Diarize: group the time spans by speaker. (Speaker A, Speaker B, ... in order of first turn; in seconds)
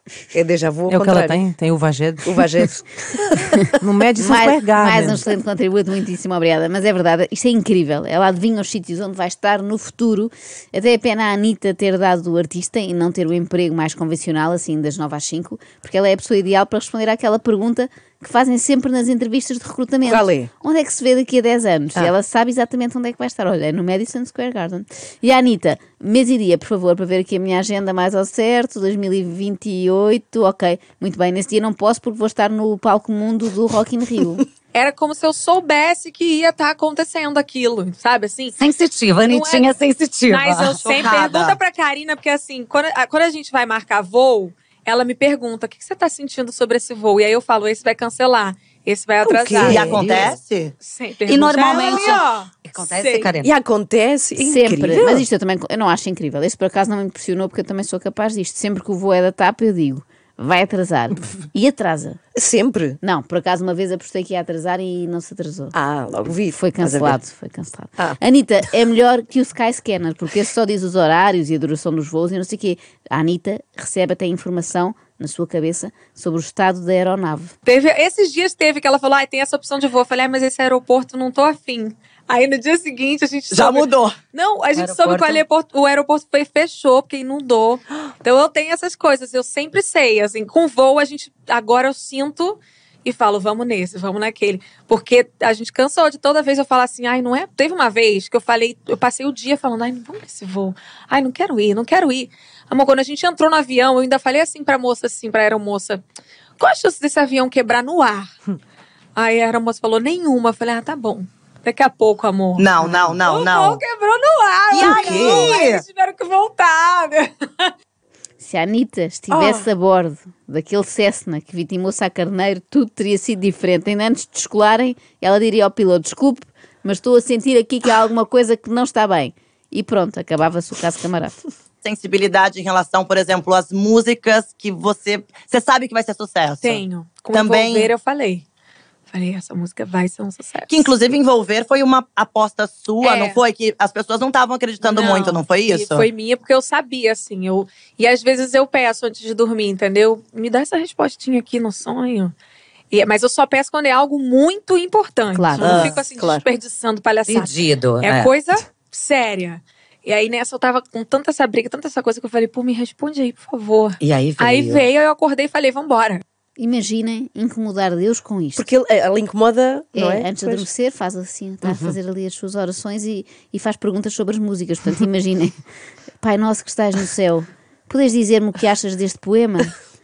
Speaker A: 0.3-1.5, 2.2-3.4, 20.0-20.5, 49.2-50.2, 53.4-55.3, 62.4-63.0, 65.7-67.2, 114.8-115.5, 119.3-119.7, 155.8-156.4, 168.6-170.7, 171.6-171.9
Speaker B: 0.9-2.4, 3.8-5.2
Speaker C: 4.2-34.4, 54.4-62.2, 63.0-65.7, 66.5-77.5, 118.4-131.4, 155.3-155.9, 166.6-168.7, 169.9-175.5, 176.2-179.7
Speaker D: 34.7-38.6, 39.2-39.7, 40.3-50.3, 50.8-53.3, 77.6-106.0, 106.6-108.3, 109.2-117.7, 136.6-138.4, 139.1-140.9, 143.0-143.4, 144.8-152.3, 152.9-166.2
Speaker E: 38.6-41.4, 49.6-50.4, 51.3-53.5, 84.7-85.4, 157.3-158.3, 164.0-164.9
Speaker F: 40.9-41.6, 49.6-50.7, 83.5-84.2, 112.6-113.8, 114.7-115.8, 131.8-137.9, 140.7-146.1, 155.6-156.0